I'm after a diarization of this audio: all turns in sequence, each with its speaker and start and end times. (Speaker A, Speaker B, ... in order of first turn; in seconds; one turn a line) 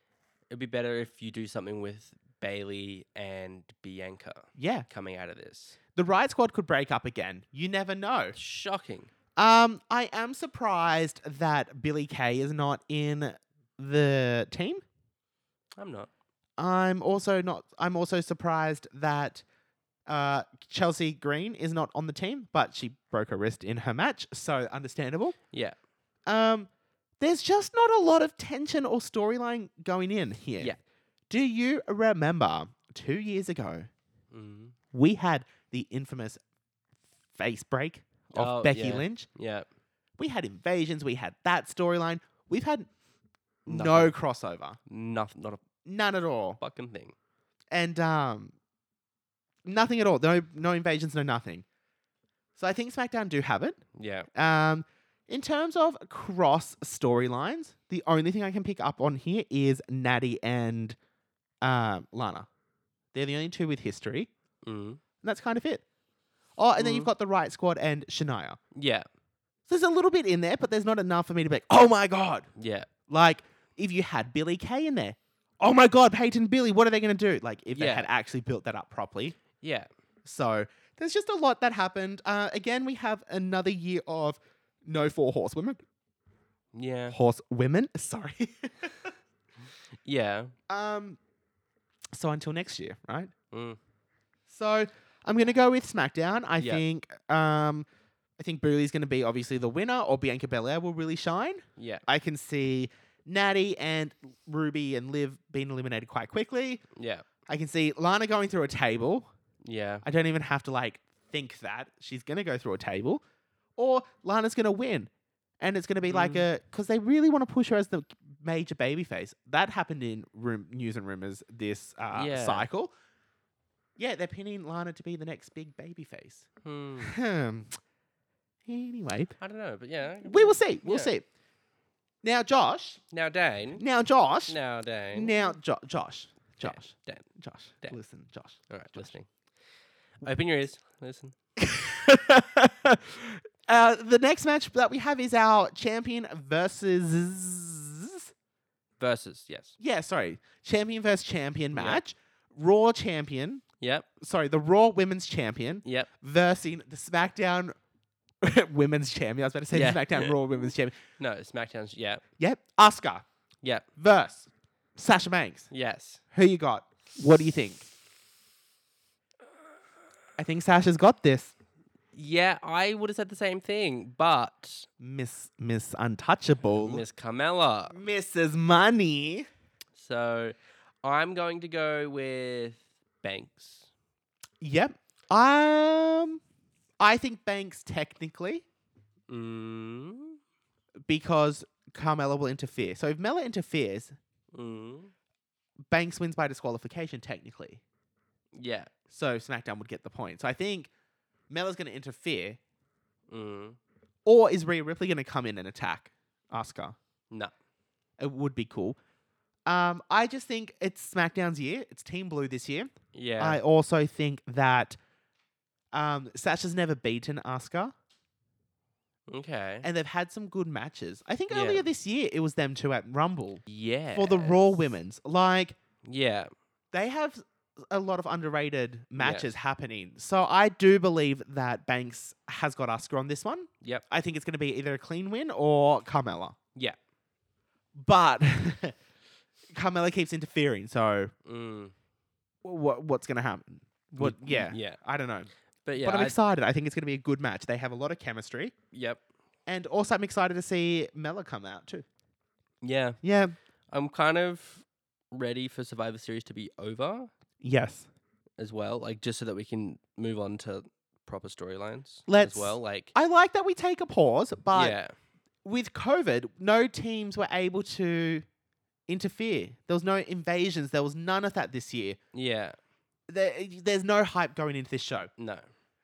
Speaker A: 0.5-5.8
Speaker B: 4.5-4.9
Speaker B: 5.9-8.4
Speaker A: 8.3-9.1
Speaker B: 9.3-14.8
Speaker A: 15.8-16.1
Speaker B: 16.6-19.4
Speaker B: 20.1-25.4
Speaker B: 26.3-26.7
Speaker B: 27.2-30.7
Speaker B: 31.3-33.9
Speaker A: 34.3-34.7
Speaker B: 34.9-36.4
Speaker B: 37.3-39.3
Speaker A: 38.3-39.6
Speaker B: 40.2-42.9
Speaker B: 43.6-44.8
Speaker A: 43.7-44.1
Speaker A: 44.9-45.6
Speaker B: 45.8-46.6
Speaker A: 46.6-47.1
Speaker B: 47.7-48.5
Speaker B: 49.6-51.6
Speaker B: 52.6-53.8
Speaker A: 54.0-54.3
Speaker B: 54.3-61.0
Speaker B: 61.6-62.5
Speaker B: 63.1-64.3
Speaker A: 64.6-65.0
Speaker B: 65.2-65.8
Speaker B: 66.6-68.6
Speaker A: 66.8-67.1
Speaker A: 68.7-69.0
Speaker B: 69.7-72.5
Speaker A: 72.5-72.9
Speaker B: 73.1-79.4
Speaker A: 77.7-78.1
Speaker A: 79.6-79.9
Speaker B: 80.2-85.8
Speaker A: 86.7-87.2
Speaker B: 87.1-89.1
Speaker A: 90.0-90.5
Speaker B: 90.7-91.2
Speaker B: 92.1-93.3
Speaker A: 93.5-93.8
Speaker B: 94.5-97.9
Speaker B: 98.4-106.8
Speaker A: 101.8-102.0
Speaker A: 106.9-107.2
Speaker B: 107.5-109.3
Speaker A: 109.6-110.0
Speaker B: 110.0-113.2
Speaker B: 113.8-115.1
Speaker B: 115.6-122.9
Speaker A: 116.1-116.5
Speaker A: 122.1-122.7
Speaker B: 124.0-126.5
Speaker A: 126.6-127.2
Speaker B: 127.0-127.8
Speaker B: 128.7-129.3
Speaker A: 129.4-131.1
Speaker B: 130.2-131.2
Speaker B: 132.2-133.0
Speaker A: 133.1-133.8
Speaker B: 133.8-134.6
Speaker A: 134.5-135.3
Speaker B: 135.1-139.1
Speaker A: 136.6-137.2
Speaker A: 138.7-139.3
Speaker A: 140.2-141.3
Speaker B: 141.6-148.3
Speaker A: 149.0-149.8
Speaker B: 149.8-153.6
Speaker A: 151.7-152.0
Speaker A: 153.8-154.1
Speaker B: 154.2-157.7
Speaker B: 158.4-161.0
Speaker A: 159.7-160.3
Speaker A: 161.2-162.2
Speaker B: 162.4-163.2
Speaker B: 163.9-165.7
Speaker A: 165.7-166.2
Speaker B: 166.3-167.9
Speaker B: 170.4-171.5
Speaker A: 172.1-174.9
Speaker B: 175.0-177.0
Speaker A: 176.7-178.0
Speaker B: 177.9-179.5
Speaker A: 179.9-183.9
Speaker B: 184.6-186.4
Speaker B: 187.0-188.6
Speaker A: 189.3-190.4
Speaker B: 191.1-194.1
Speaker A: 194.5-195.1
Speaker B: 195.9-197.8
Speaker A: 198.6-198.9
Speaker B: 199.1-200.9
Speaker B: 201.5-202.6
Speaker A: 203.3-203.8
Speaker B: 204.2-207.0
Speaker B: 208.2-209.0
Speaker B: 209.7-215.0
Speaker A: 213.1-213.6
Speaker B: 215.9-217.9
Speaker A: 219.3-219.9
Speaker B: 219.8-223.6
Speaker A: 221.5-221.8
Speaker A: 223.7-224.8
Speaker B: 224.1-225.8
Speaker A: 226.0-226.5
Speaker B: 226.9-236.6
Speaker A: 229.2-229.5
Speaker B: 238.0-238.9
Speaker B: 239.7-241.3
Speaker A: 241.4-241.9
Speaker B: 242.6-248.7
Speaker A: 244.2-245.0
Speaker A: 245.8-246.3
Speaker A: 248.9-249.2
Speaker B: 249.7-252.1
Speaker A: 252.8-253.2
Speaker B: 253.2-253.5
Speaker A: 253.9-257.3
Speaker B: 257.6-258.1
Speaker A: 258.6-263.1
Speaker B: 262.3-264.9
Speaker A: 264.7-265.1
Speaker B: 265.6-268.4
Speaker B: 269.1-272.2
Speaker A: 272.3-272.8
Speaker B: 273.3-275.3
Speaker A: 275.4-275.6